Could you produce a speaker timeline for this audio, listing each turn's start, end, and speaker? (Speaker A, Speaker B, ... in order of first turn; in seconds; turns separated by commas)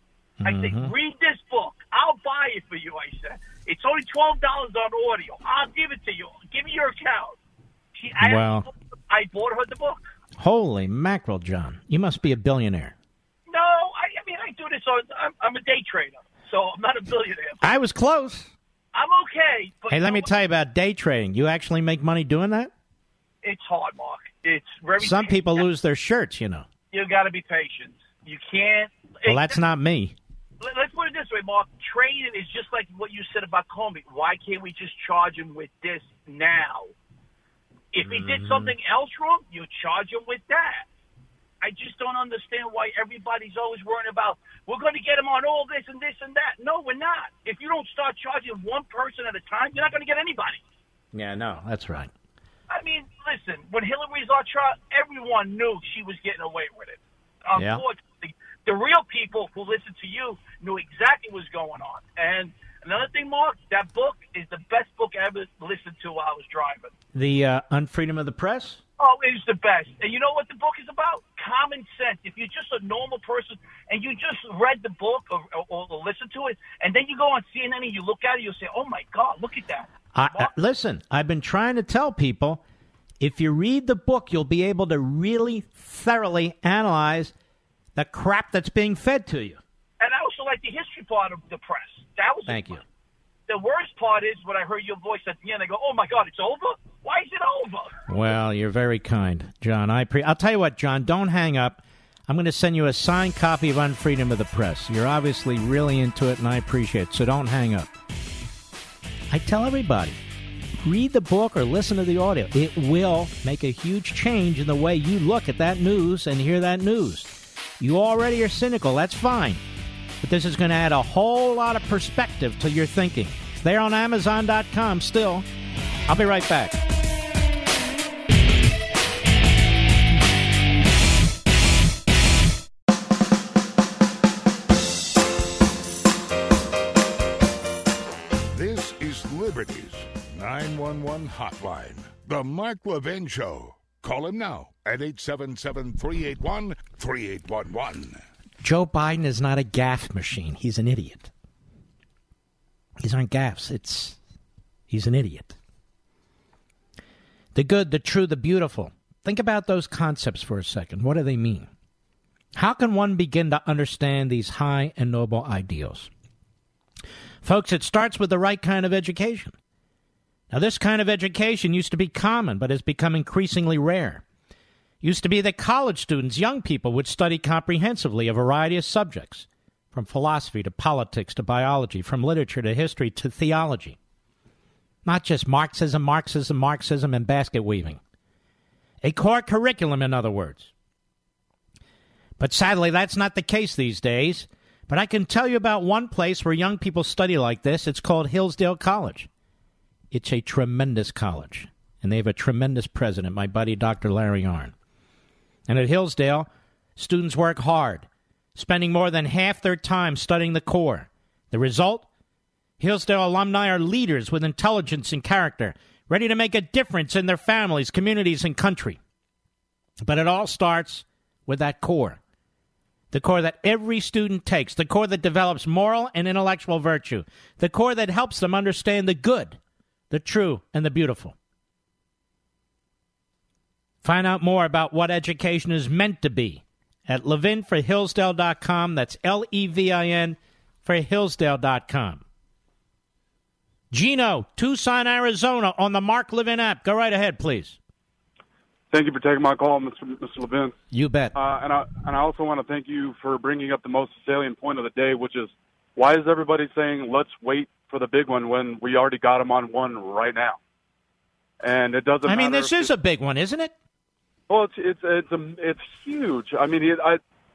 Speaker A: 0.4-0.9, Speaker B: 0.4-7.4, Speaker B: 8.0-10.1, Speaker A: 8.2-8.7, Speaker A: 10.4-12.9, Speaker B: 13.5-17.6, Speaker A: 17.6-18.5, Speaker B: 18.9-20.4, Speaker A: 19.9-22.7, Speaker B: 23.4-25.6, Speaker A: 25.0-26.7, Speaker B: 26.9-29.6, Speaker A: 29.3-30.1, Speaker B: 30.6-36.9, Speaker B: 37.9-40.9, Speaker A: 38.0-38.7, Speaker B: 41.6-50.6, Speaker A: 51.1-52.1, Speaker B: 52.7-66.9, Speaker A: 57.6-57.9, Speaker A: 67.1-68.8, Speaker B: 69.0-80.5, Speaker A: 80.1-82.6, Speaker A: 83.2-87.3, Speaker A: 88.0-89.6, Speaker B: 90.0-92.8, Speaker A: 92.5-92.8, Speaker B: 93.5-98.0, Speaker A: 98.1-107.9, Speaker A: 109.3-110.2, Speaker A: 110.8-119.6, Speaker A: 120.2-125.5, Speaker A: 126.1-126.8, Speaker C: 138.5-148.2, Speaker A: 148.6-151.3, Speaker A: 153.0-154.2, Speaker A: 154.9-155.6, Speaker A: 157.6-161.7, Speaker A: 162.6-166.1, Speaker A: 167.4-169.6, Speaker A: 170.5-174.2, Speaker A: 175.0-184.0, Speaker A: 185.1-188.0, Speaker A: 189.0-190.7, Speaker A: 192.4-199.3, Speaker A: 200.1-204.7, Speaker A: 205.7-212.1, Speaker A: 212.8-219.0, Speaker A: 220.0-222.2, Speaker A: 223.1-229.6, Speaker A: 230.1-231.3, Speaker A: 234.0-242.2, Speaker A: 243.9-247.8, Speaker D: 248.9-250.8, Speaker A: 250.9-251.4, Speaker D: 251.3-260.6, Speaker D: 261.6-262.9, Speaker A: 262.2-263.7, Speaker D: 264.5-267.2